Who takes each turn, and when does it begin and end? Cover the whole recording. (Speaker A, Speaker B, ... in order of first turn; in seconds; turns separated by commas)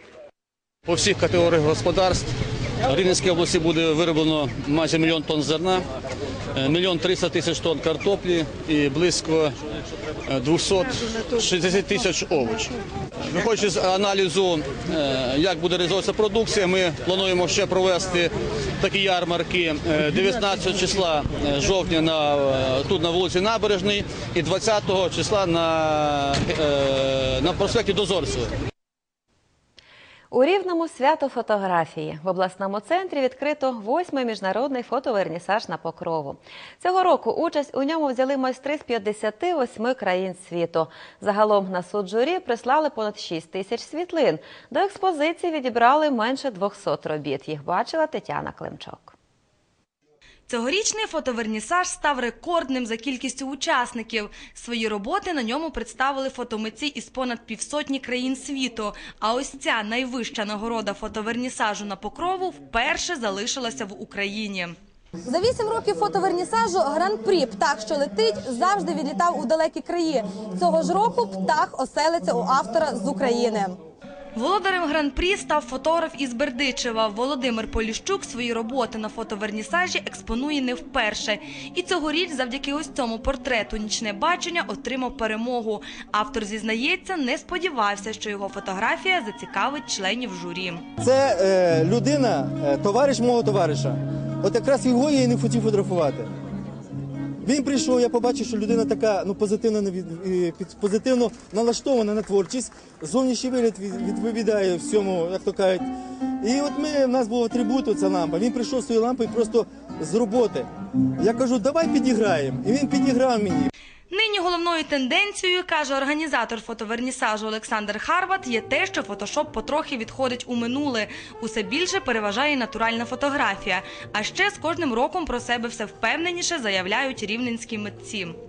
Speaker A: 0.9-2.3, Speaker A: 2.9-5.8, Speaker A: 6.6-9.5, Speaker A: 10.3-10.8, Speaker A: 11.4-12.6, Speaker A: 13.4-18.3, Speaker A: 18.8-28.4, Speaker B: 30.3-49.1, Speaker C: 50.5-64.7, Speaker D: 65.4-65.8, Speaker D: 66.3-70.1, Speaker D: 70.7-73.7, Speaker C: 74.4-90.8, Speaker E: 91.0-96.3, Speaker E: 97.4-105.9, Speaker E: 106.4-110.7, Speaker E: 111.2-113.7, Speaker C: 114.1-128.4